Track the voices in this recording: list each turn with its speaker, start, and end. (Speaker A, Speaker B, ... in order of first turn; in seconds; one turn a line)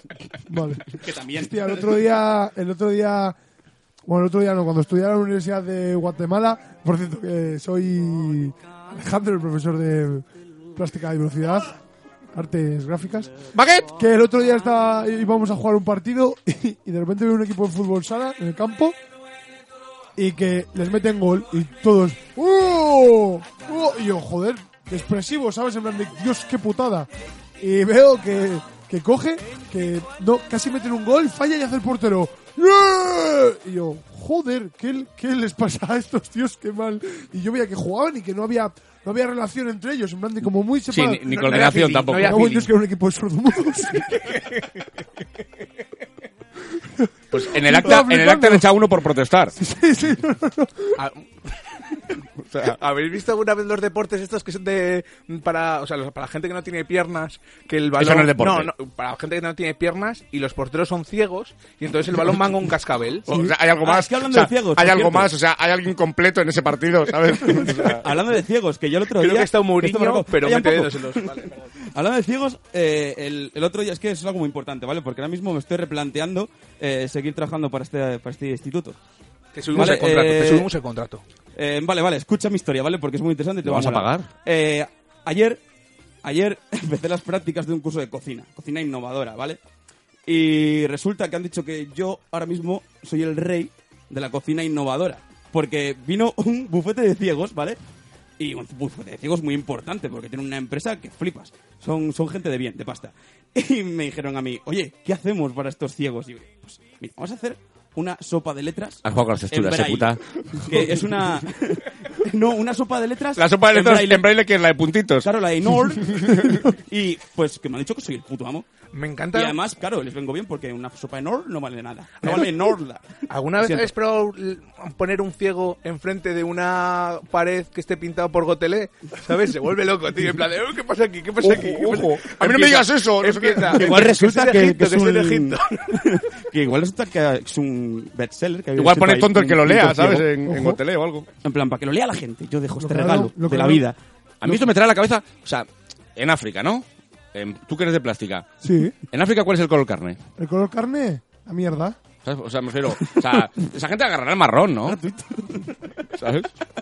Speaker A: 0.5-3.4
Speaker B: 0.9-1.6
Speaker A: 4.1-10.2
Speaker A: 10.8-11.8
Speaker A: 12.3-13.3
Speaker C: 13.6-13.8
Speaker A: 13.8-19.0
Speaker A: 20.2-44.3
Speaker D: 40.9-42.6
Speaker C: 41.3-42.7
Speaker C: 44.2-44.6
Speaker A: 47.0-48.6
Speaker D: 47.3-49.6
Speaker A: 49.6-51.0
Speaker C: 51.0-51.2
Speaker D: 52.4-52.8
Speaker C: 52.6-63.3
Speaker D: 58.0-58.7
Speaker D: 63.3-68.1
Speaker B: 63.8-65.3
Speaker B: 67.8-79.0
Speaker C: 69.1-71.6
Speaker C: 79.5-81.2
Speaker B: 79.7-80.7
Speaker B: 81.6-85.6
Speaker D: 83.6-84.3
Speaker B: 86.2-89.6
Speaker B: 90.3-97.8
Speaker B: 98.4-114.2
Speaker D: 109.0-110.8
Speaker D: 113.4-115.3
Speaker B: 115.2-118.7
Speaker D: 116.0-116.6
Speaker C: 118.9-119.6
Speaker B: 119.3-123.9
Speaker C: 122.2-122.7
Speaker C: 123.3-135.8
Speaker D: 131.4-134.1
Speaker B: 133.7-140.3
Speaker D: 138.8-141.3
Speaker A: 140.4-140.8
Speaker B: 141.4-144.0
Speaker A: 142.8-143.8
Speaker D: 144.4-148.5
Speaker A: 148.6-149.0
Speaker D: 149.1-150.2
Speaker A: 150.4-152.0
Speaker D: 152.2-155.0
Speaker B: 154.9-155.8
Speaker D: 156.1-156.5